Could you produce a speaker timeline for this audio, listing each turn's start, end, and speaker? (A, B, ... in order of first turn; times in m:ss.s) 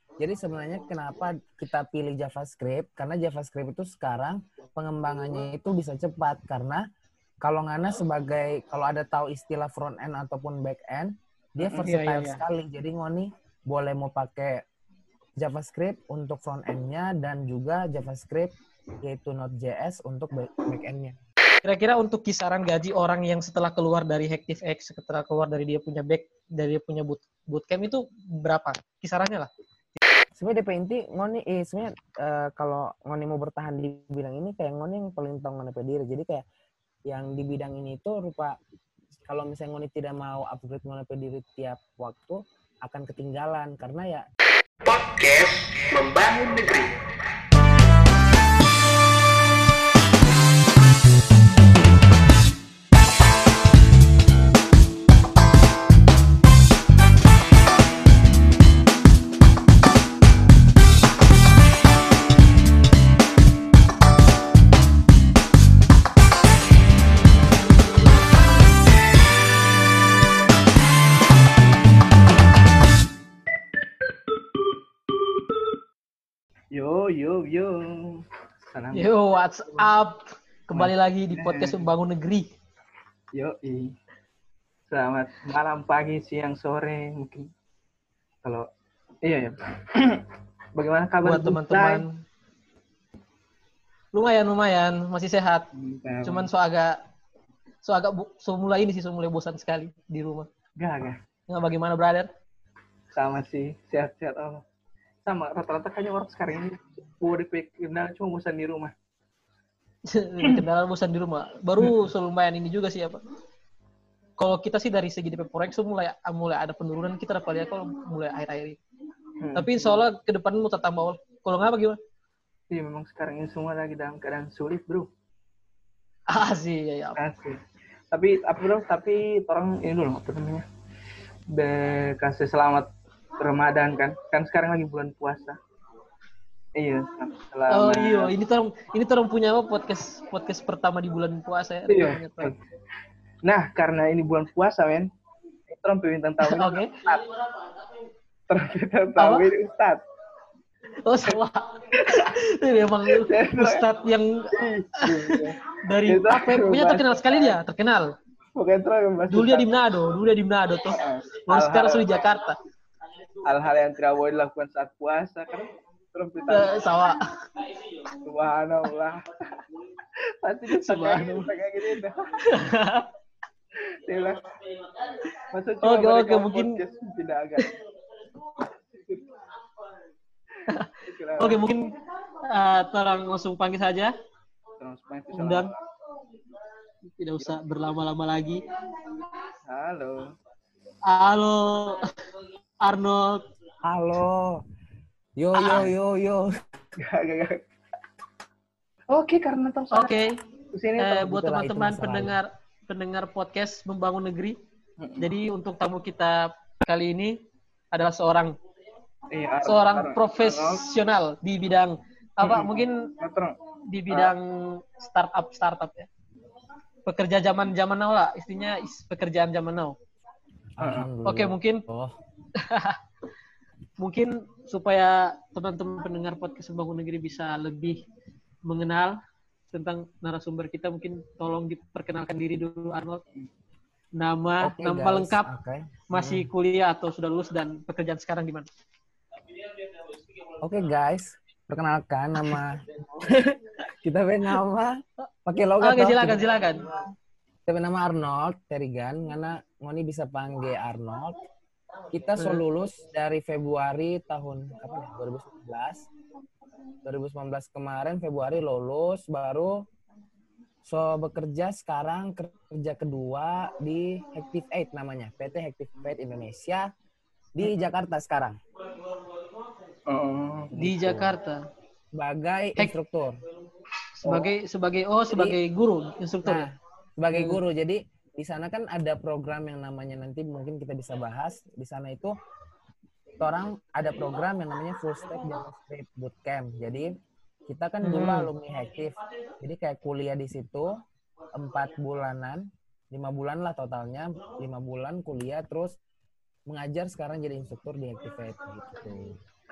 0:00.2-0:06.8 A
0:07.4-0:14.6 A
0:11.8-0:12.4 B
0:15.4-0:21.2 A
0:21.6-0:29.5 B
0:30.4-0:36.4 A
0:37.1-0:38.6 A
0:39.3-0:44.2 A
0:44.8-0:46.9 C
1:16.7-1:19.1 D
1:18.9-1:22.5 B
1:19.6-1:19.9 D
1:20.7-1:21.9 D
1:23.3-1:24.0 D
1:24.9-1:27.5 D
1:29.2-1:32.0 D
1:31.2-1:32.2 B
1:34.1-1:35.7 B
1:35.7-1:36.5 D
1:36.2-1:37.0 B
1:37.8-1:40.5 B
1:40.8-1:41.2 D
1:41.5-1:42.3 B
1:43.1-1:44.6 D
1:45.2-1:48.9 D
1:50.1-1:53.2 B
1:54.4-1:58.8 B
1:59.4-2:00.0 D
1:59.5-2:02.0 B
2:02.7-2:05.1 D
2:06.3-2:07.2 B
2:07.2-2:10.6 D
2:11.5-2:15.6 D
2:16.7-2:18.3 D
2:17.7-2:22.5 B
2:21.9-2:22.6 D
2:23.4-2:25.1 D
2:25.7-2:27.4 D
2:26.4-2:27.0 B
2:28.5-2:30.0 D
2:29.2-2:29.5 B
2:31.0-2:38.2 B
2:31.9-2:32.3 D
2:33.0-2:33.8 D
2:34.5-2:37.6 D
2:38.6-2:39.8 D
2:39.3-2:42.6 B
2:40.9-2:42.3 D
2:43.4-2:46.9 D
2:46.4-2:47.4 B
2:48.1-2:52.5 D
2:50.7-2:51.5 B
2:52.4-2:53.1 B
2:53.8-2:54.6 D
2:55.3-2:56.8 B
2:55.5-2:57.7 D
2:58.5-2:59.4 D
3:00.7-3:01.9 B
3:01.0-3:01.8 D
3:02.5-3:04.1 B
3:04.8-3:05.8 D
3:05.3-3:05.7 B
3:07.1-3:09.1 B
3:09.6-3:10.3 D
3:11.0-3:12.2 B
3:12.8-3:13.5 B
3:13.8-3:14.6 A
3:15.4-3:16.5 A
3:15.5-3:15.8 B
3:17.0-3:17.6 D
3:19.1-3:21.3 D
3:19.9-3:20.4 B
3:21.0-3:24.6 B
3:21.2-3:22.4 A
3:25.0-3:25.3 D
3:25.2-3:27.4 B
3:27.9-3:28.6 B
3:29.3-3:30.8 D
3:29.6-3:33.1 B
3:32.4-3:33.6 D
3:33.9-3:36.1 B
3:34.1-3:34.3 D
3:37.0-3:40.0 B
3:40.8-3:42.1 A
3:40.8-3:41.1 D
3:41.2-3:41.8 B
3:42.6-3:43.0 B
3:44.0-3:48.0 B
3:48.6-3:49.2 B
3:49.7-3:53.2 B
3:54.1-3:55.5 B
3:54.6-3:56.5 A
3:56.1-3:58.7 B
4:00.6-4:06.5 A
4:05.8-4:07.0 B
4:07.7-4:11.4 A
4:12.1-4:16.1 A
4:17.0-4:19.8 A
4:20.8-4:26.9 A
4:27.5-4:28.6 A
4:30.1-4:30.7 D
4:30.7-4:31.4 A
4:30.8-4:31.6 B
4:32.1-4:33.4 A
4:34.2-4:36.7 B
4:34.2-4:34.5 A
4:35.3-4:35.6 A
4:36.4-4:42.4 A
4:43.4-4:51.0 A
4:48.0-4:48.5 B
4:51.5-4:56.0 A
4:56.7-4:59.4 A